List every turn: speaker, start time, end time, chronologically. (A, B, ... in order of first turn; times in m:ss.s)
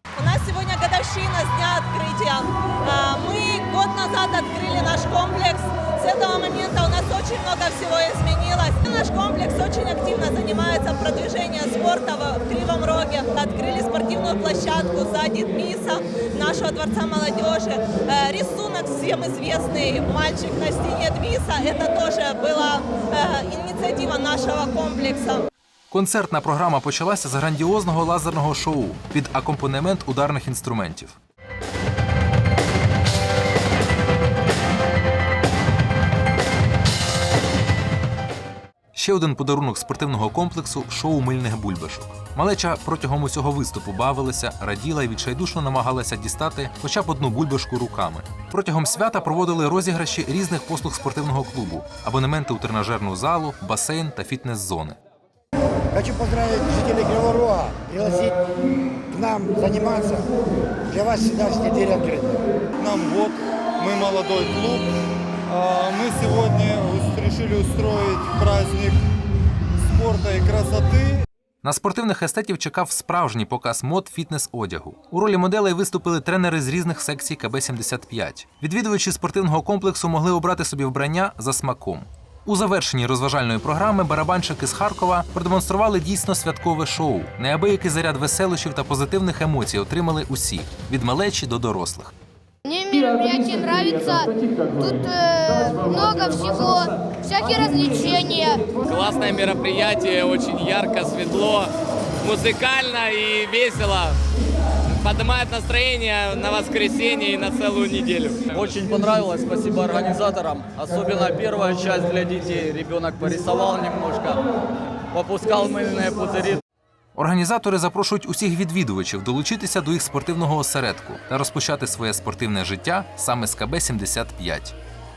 0:00.2-0:25.5 A
0:25.9-0:31.2 B
0:38.9-0:55.0 B
0:55.9-0:58.4 C
0:59.1-1:00.3 C
1:00.9-1:02.4 C
1:02.8-1:04.9 D
1:05.5-1:09.0 D
1:09.8-1:11.3 D
1:11.6-1:32.1 B
1:32.6-1:38.8 E
1:38.8-1:44.2 F
1:44.9-1:48.8 F
1:48.6-1:54.4 G
1:55.1-1:56.6 G
1:57.2-2:04.8 B